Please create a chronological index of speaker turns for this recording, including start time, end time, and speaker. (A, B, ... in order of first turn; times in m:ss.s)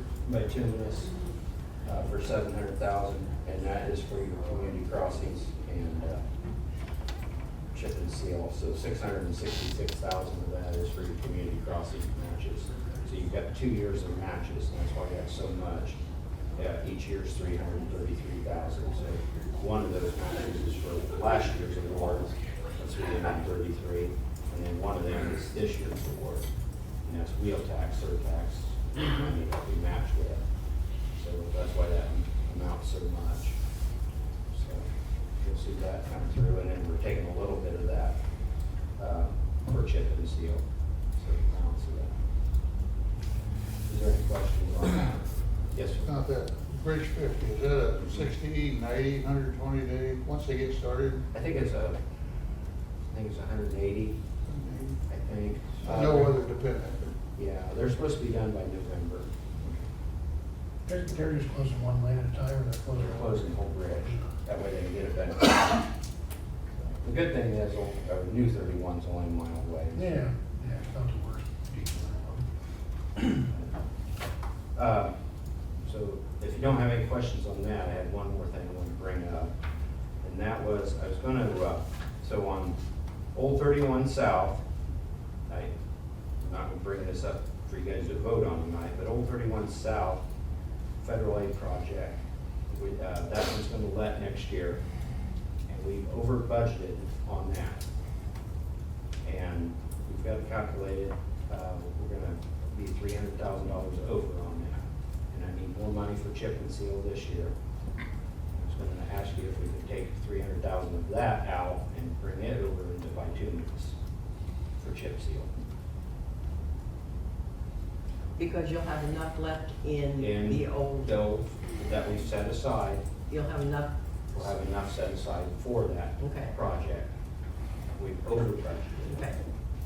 0:00.2-0:01.2 A
0:01.8-0:06.2 A
0:07.7-0:16.0 A
0:16.5-0:26.5 A
0:27.0-0:30.4 A
0:31.1-0:33.6 A
0:34.5-0:34.9 A
0:35.4-0:38.2 A
0:39.0-0:42.2 A
0:43.9-0:46.1 A
0:46.0-0:51.3 B
0:48.0-0:48.3 A
0:51.3-0:52.0 A
0:53.1-0:54.2 A
0:54.5-0:55.0 B
0:55.1-0:56.4 A
0:55.8-0:57.2 B
0:57.4-0:59.3 A
1:00.9-1:04.3 C
1:03.0-1:05.8 A
1:07.0-1:10.2 A
1:09.9-1:12.5 C
1:14.8-1:15.2 A
1:15.8-1:19.5 A
1:20.2-1:22.8 A
1:23.3-1:24.6 A
1:25.5-1:25.8 A
1:26.4-1:30.2 A
1:31.0-1:34.8 A
1:35.7-1:37.8 A
1:39.2-1:47.5 A
1:48.5-1:54.0 A
1:54.8-1:55.5 A
1:58.4-2:01.2 D
2:00.2-2:03.1 A
2:03.3-2:04.0 D
2:04.3-2:07.1 A
2:06.2-2:06.5 D
2:08.0-2:09.3 A
2:09.1-2:09.4 D